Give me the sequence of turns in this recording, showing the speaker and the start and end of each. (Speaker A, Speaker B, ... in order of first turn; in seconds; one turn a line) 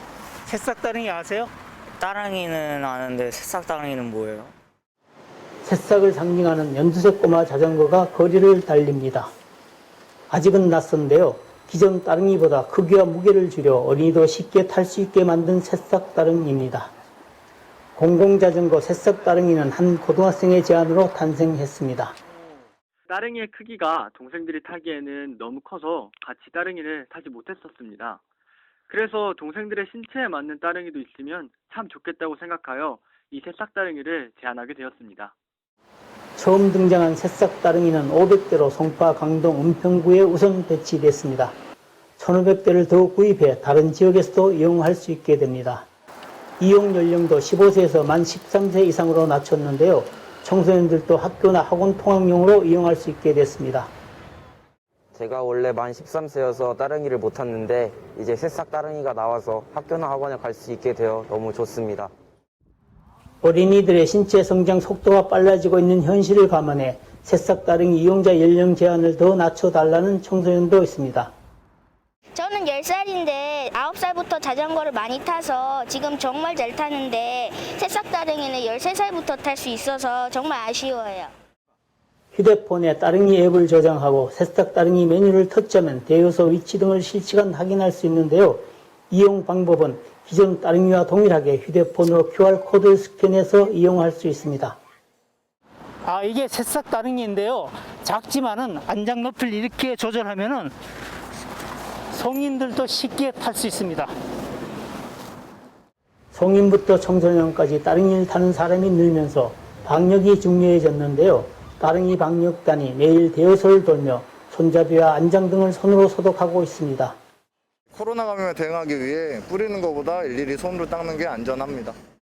Speaker A: 0.5-1.5
Speaker B: 2.0-4.4
Speaker C: 5.6-9.3
Speaker C: 10.3-16.9
Speaker C: 17.9-22.1
Speaker D: 23.1-28.2
Speaker D: 28.9-35.3
Speaker C: 36.4-41.5
Speaker C: 42.2-45.9
Speaker C: 46.6-53.9
Speaker E: 55.1-62.1
Speaker C: 63.4-71.3
Speaker F: 72.3-81.3
Speaker C: 82.3-94.8
Speaker A: 96.0-100.7
Speaker A: 102.1-104.1
Speaker C: 106.3-117.2
Speaker G: 117.9-121.9